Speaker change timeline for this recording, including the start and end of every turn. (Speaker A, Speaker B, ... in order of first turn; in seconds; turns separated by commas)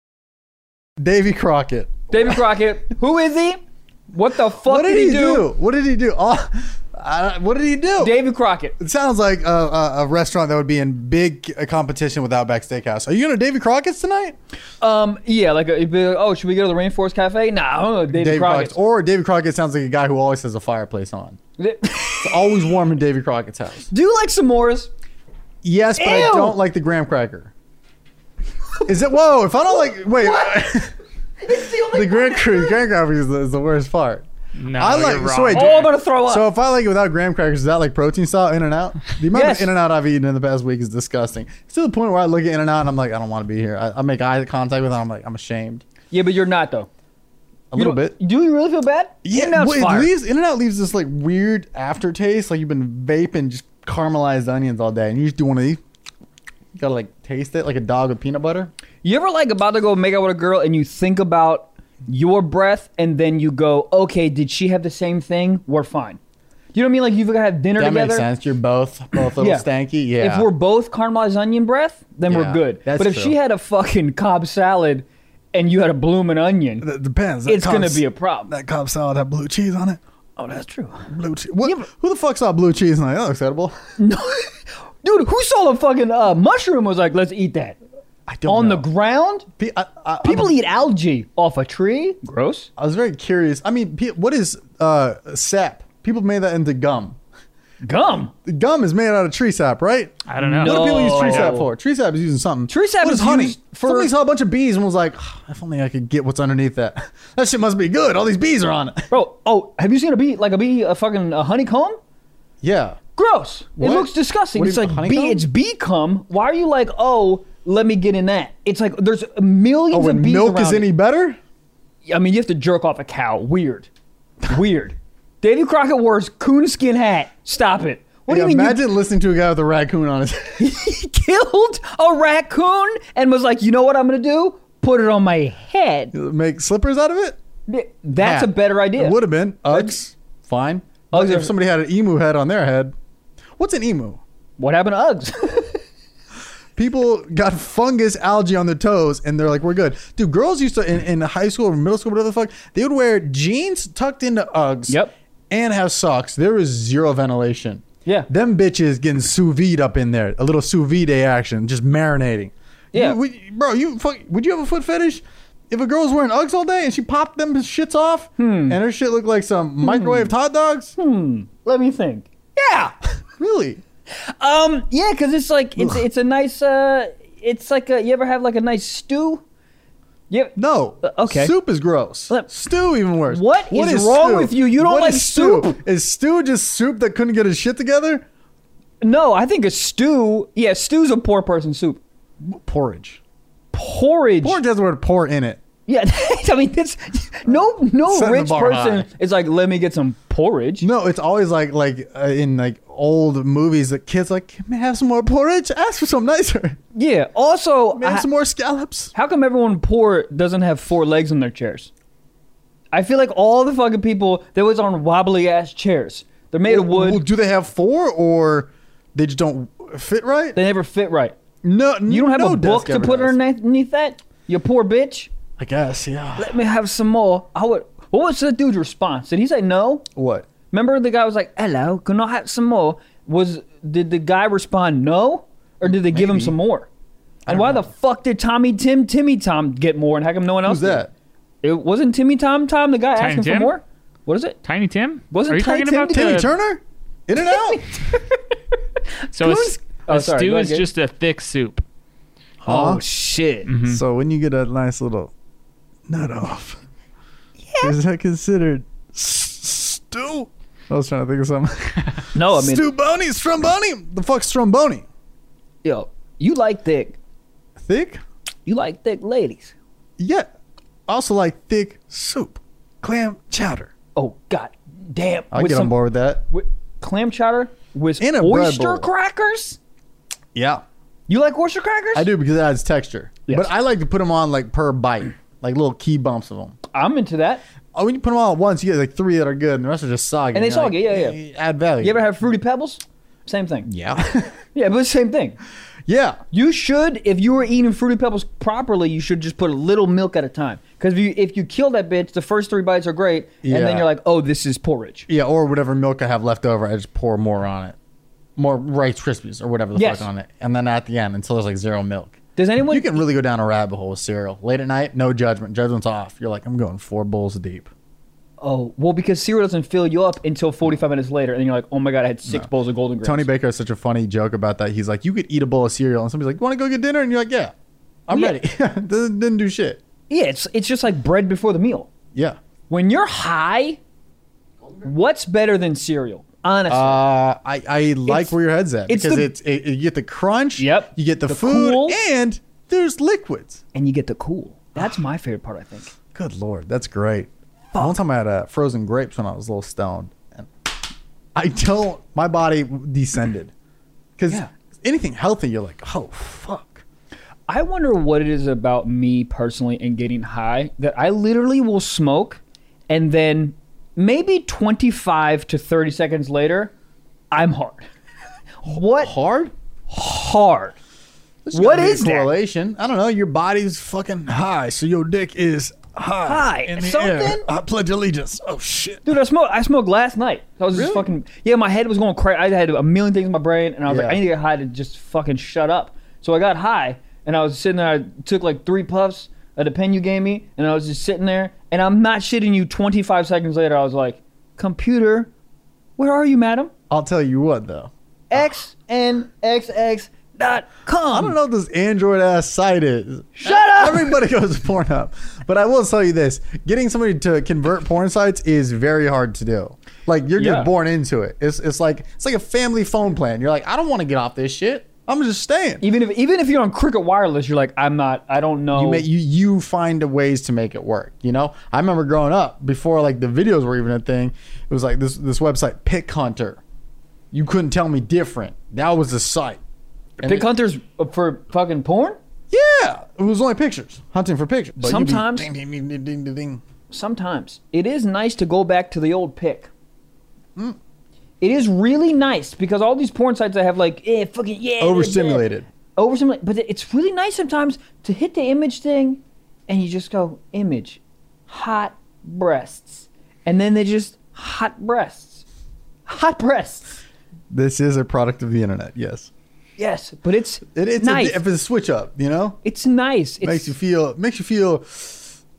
Speaker A: 1.0-2.4, Speaker B: 2.1-3.6, Speaker B: 4.1-5.5, Speaker A: 4.6-8.1, Speaker B: 8.0-8.8, Speaker A: 8.8-14.3, Speaker B: 14.8-18.8, Speaker A: 18.1-21.4, Speaker B: 21.6-22.6, Speaker A: 22.2-23.9, Speaker B: 23.9-24.9, Speaker A: 25.6-27.5, Speaker B: 26.0-26.6, Speaker A: 28.8-30.9, Speaker B: 30.2-30.7, Speaker B: 31.4-32.8, Speaker A: 31.9-45.8, Speaker C: 34.6-35.9, Speaker B: 35.5-36.5, Speaker B: 39.3-39.7, Speaker B: 46.1-46.9, Speaker A: 47.7-48.1, Speaker B: 47.7-50.1, Speaker A: 49.2-55.8, Speaker A: 56.8-58.7, Speaker B: 59.0-66.2, Speaker B: 66.7-68.3, Speaker A: 67.8-70.5, Speaker B: 69.4-69.7, Speaker B: 70.2-76.8, Speaker A: 72.3-73.3, Speaker A: 76.8-80.0, Speaker B: 77.5-78.5, Speaker B: 80.4-81.1, Speaker A: 81.1-83.8, Speaker B: 84.0-87.8, Speaker A: 88.3-88.9, Speaker B: 88.5-89.5, Speaker A: 89.6-90.5, Speaker B: 90.2-92.7, Speaker A: 92.8-97.2, Speaker B: 97.8-98.3, Speaker A: 98.4-109.1, Speaker C: 100.3-101.5, Speaker B: 100.6-101.7, Speaker B: 102.7-104.1, Speaker B: 109.1-112.0, Speaker A: 112.6-113.0, Speaker B: 113.2-120.9, Speaker A: 113.8-115.5, Speaker A: 119.9-121.4, Speaker B: 122.0-123.9, Speaker B: 124.5-128.8, Speaker A: 128.3-130.6, Speaker B: 130.6-136.1, Speaker A: 136.1-137.4, Speaker B: 137.7-139.2, Speaker A: 138.2-142.9, Speaker B: 141.1-141.5, Speaker A: 143.6-144.2, Speaker B: 144.6-145.8, Speaker A: 146.8-170.9, Speaker B: 154.9-155.1, Speaker B: 162.9-163.2, Speaker B: 168.4-168.8, Speaker B: 169.8-170.3, Speaker B: 171.0-172.9, Speaker A: 173.4-173.8, Speaker B: 174.1-179.4, Speaker A: 175.8-176.0, Speaker B: 180.3-181.5, Speaker A: 180.6-188.2, Speaker B: 183.3-185.8, Speaker B: 189.0-192.0, Speaker A: 192.4-193.2, Speaker B: 193.7-194.6, Speaker A: 194.4-195.6, Speaker B: 195.8-200.9, Speaker A: 198.1-199.1, Speaker A: 200.8-206.8, Speaker B: 206.9-208.3, Speaker A: 207.9-209.1, Speaker B: 209.1-211.9, Speaker B: 212.9-217.2, Speaker A: 216.7-220.6, Speaker B: 220.5-221.3, Speaker A: 221.6-223.4, Speaker B: 222.1-225.3, Speaker A: 225.6-226.6, Speaker B: 226.4-230.1, Speaker A: 230.2-230.5, Speaker B: 230.7-236.9, Speaker A: 235.8-236.6, Speaker A: 237.4-237.9, Speaker B: 237.5-241.1, Speaker A: 240.6-241.1, Speaker B: 241.6-244.6, Speaker C: 243.1-243.7, Speaker C: 244.6-246.5, Speaker B: 245.3-246.4, Speaker A: 246.1-247.8, Speaker B: 247.4-248.5, Speaker B: 249.3-250.9, Speaker C: 249.3-251.8, Speaker A: 252.6-253.0, Speaker B: 252.7-253.7, Speaker C: 253.7-254.0, Speaker A: 253.8-255.3, Speaker A: 256.1-256.8, Speaker B: 257.6-257.9, Speaker A: 257.8-265.1, Speaker B: 262.3-262.9, Speaker B: 265.8-267.2, Speaker A: 267.8-268.2, Speaker B: 268.6-269.7, Speaker A: 270.2-270.5, Speaker A: 271.1-273.9, Speaker B: 274.1-275.9, Speaker A: 275.5-276.4, Speaker B: 276.5-279.8, Speaker A: 278.2-279.1, Speaker A: 280.5-280.8, Speaker B: 281.3-282.3, Speaker A: 282.1-286.8, Speaker B: 283.5-283.7, Speaker B: 286.9-287.6, Speaker A: 287.9-292.2, Speaker B: 290.5-291.4, Speaker B: 292.0-293.9, Speaker A: 293.9-294.5, Speaker B: 294.7-295.6, Speaker A: 296.1-296.4, Speaker B: 296.5-305.3, Speaker A: 303.6-304.1, Speaker A: 305.3-307.9, Speaker A: 308.6-317.9, Speaker B: 309.9-310.3, Speaker B: 312.6-313.2, Speaker B: 318.6-323.5, Speaker A: 323.2-327.7, Speaker A: 328.3-330.0, Speaker B: 328.3-328.6, Speaker B: 330.3-332.1, Speaker B: 332.9-334.0, Speaker B: 335.0-337.2, Speaker A: 336.9-343.8, Speaker B: 338.3-338.6, Speaker B: 339.1-339.5, Speaker B: 340.8-342.2, Speaker B: 343.9-346.1, Speaker A: 344.9-345.2, Speaker A: 346.3-350.7, Speaker A: 351.5-353.7, Speaker A: 354.4-357.0, Speaker B: 357.7-366.9, Speaker B: 367.5-368.0, Speaker B: 368.8-369.3, Speaker A: 368.9-369.7, Speaker B: 370.1-371.0, Speaker A: 371.6-379.3, Speaker B: 371.7-372.5, Speaker B: 376.4-377.6, Speaker B: 379.2-395.5, Speaker A: 380.9-381.3, Speaker A: 384.1-384.4, Speaker B: 396.2-396.9, Speaker A: 397.1-398.1, Speaker B: 398.5-401.6, Speaker A: 401.3-416.1, Speaker B: 403.6-404.4, Speaker B: 410.6-410.9, Speaker B: 416.0-419.3, Speaker A: 418.9-426.8, Speaker A: 427.5-429.8, Speaker A: 430.4-430.7, Speaker B: 430.4-432.4, Speaker A: 432.7-436.8, Speaker B: 435.0-435.7, Speaker B: 437.1-439.9, Speaker B: 441.6-455.6, Speaker A: 445.0-445.9, Speaker B: 456.2-457.2, Speaker A: 457.7-459.5, Speaker B: 460.0-461.6, Speaker A: 460.9-462.8, Speaker B: 462.8-463.9, Speaker A: 463.6-465.6